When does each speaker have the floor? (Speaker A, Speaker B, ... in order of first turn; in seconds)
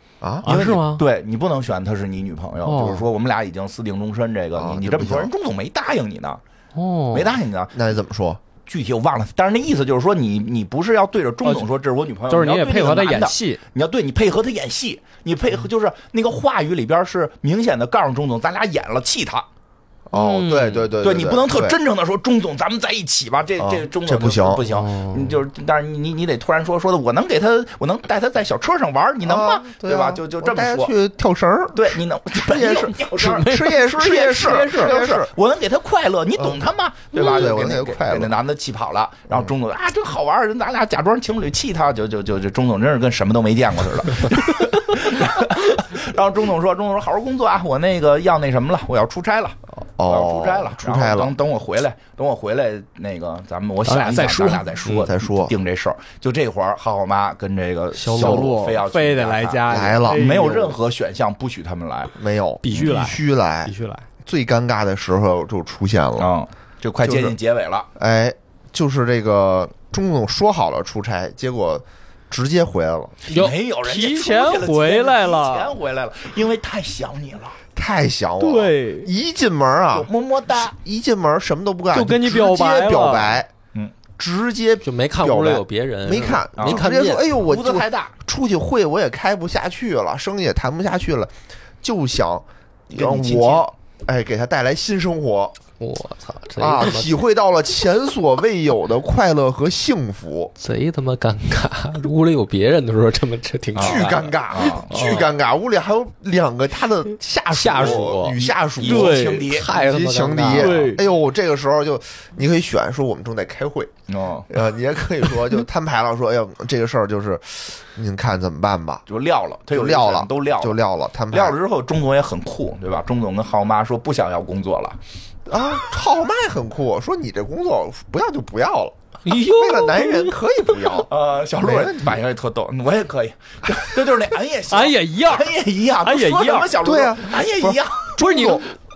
Speaker A: 0.2-0.5, 4.5-5.3, 7.7-8.4, 20.1-21.8, 23.6-24.6, 29.2-35.3, 36.4-36.6, 37.1-38.3, 50.0-51.3, 54.9-55.5, 57.9-58.6, 59.7-60.6, 62.1-63.7, 64.2-66.3, 67.0-67.3, 68.0-73.2, 77.7-83.5, 84.2-95.5, 96.6-100.5, 103.7-113.9, 114.5-119.0, 119.7-121.5, 125.5-131.1, 131.6-132.2, 136.8-138.7
Speaker B: 0.4-1.0, 2.6-3.0, 6.7-7.4, 12.3-13.6, 20.1-20.9, 24.7-25.4, 33.2-35.0, 37.1-37.5, 53.8-55.1, 58.0-60.7, 62.6-64.0, 73.3-75.7, 78.4-79.1, 81.9-83.4, 104.9-105.2, 107.5-111.0, 129.2-130.3, 134.7-136.7, 138.2-138.7
Speaker C: 0.4-6.4, 7.1-7.8, 8.7-19.4, 21.0-30.9, 31.7-62.1, 66.2-67.9, 73.3-77.6, 79.9-80.7, 86.6-88.1, 92.9-93.7, 103.7-104.9, 107.7-109.7, 114.1-114.5, 119.1-120.8, 121.3-125.0, 131.1-138.2
Speaker D: 84.8-87.2, 95.8-97.1, 100.6-104.3, 104.9-105.3, 109.2-111.0